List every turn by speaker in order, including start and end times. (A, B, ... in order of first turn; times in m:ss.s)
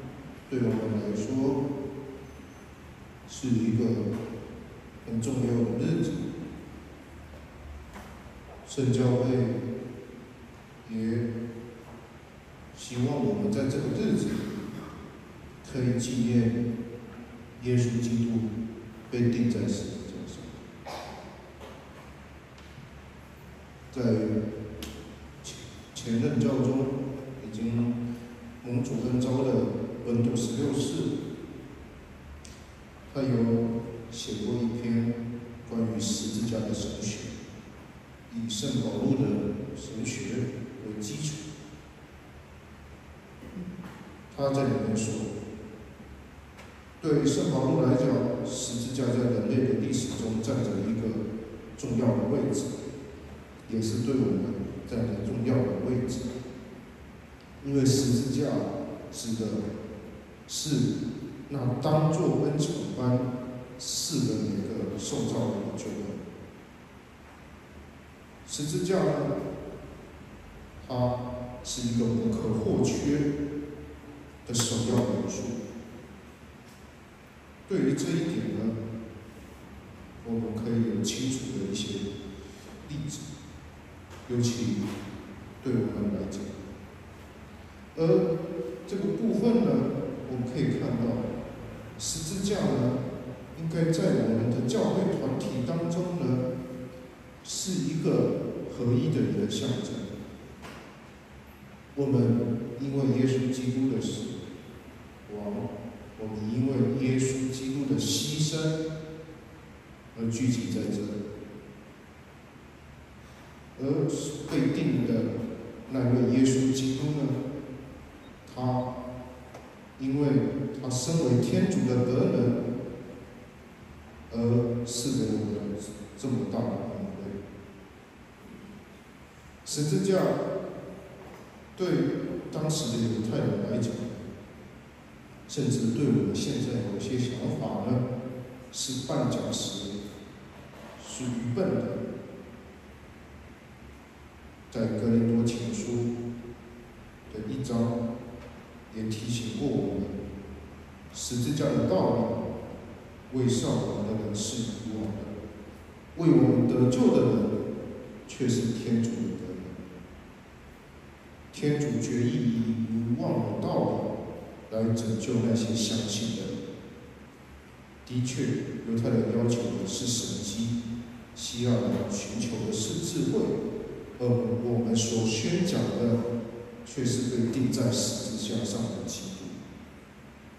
0:00.5-0:01.6 A
0:03.2-0:04.1 A
0:05.0-0:06.3 A
0:08.6-0:09.6 A
0:10.8-0:11.3 A
0:12.7-0:14.6 A
0:15.6-0:16.6 A
0:17.6-0:18.5 A
0:19.1-0:20.6 A
0:23.9-0:24.3 A
0:25.4-0:28.0 A
0:28.6-0:31.1 A
0:33.1-0:37.3 A
0:38.3-0:41.4 A
0:44.3-0:45.3 A
0:47.0-0:51.2 A
0:51.8-0:52.7 A
0:53.6-0:56.2 A
0:57.6-0:59.6 A
1:00.5-1:00.9 A
1:01.5-1:06.2 A
1:08.4-1:09.4 A
1:10.8-1:13.3 A
1:14.4-1:15.6 A
1:17.7-1:18.8 A
1:20.2-1:22.1 A
1:22.8-1:23.2 A
1:24.2-1:24.9 A
1:25.6-1:26.5 A
1:27.9-1:28.3 A
1:28.8-1:31.2 A
1:32.0-1:33.0 A
1:33.5-1:36.4 A
1:37.4-1:40.1 A
1:41.9-1:44.4 A
1:45.2-1:48.8 A
1:50.1-1:51.2 A
1:53.8-1:55.3 A
1:55.9-1:57.4 A
1:58.4-1:58.8 A
2:00.0-2:02.6 A
2:04.3-2:07.4 A
2:09.6-2:10.4 A
2:11.7-2:14.2 A
2:15.5-2:18.0 A
2:18.7-2:20.0 A
2:21.0-2:22.0 A
2:24.7-2:26.1 A
2:27.3-2:27.9 A
2:28.9-2:30.2 A
2:31.1-2:32.5 A
2:33.3-2:35.3 A
2:36.1-2:37.5 A
2:38.2-2:39.7 A
2:41.5-2:44.1 A
2:44.7-2:46.5 A
2:48.0-2:50.8 A
2:51.3-2:53.6 A
2:54.2-2:56.2 A
2:56.8-2:59.6 A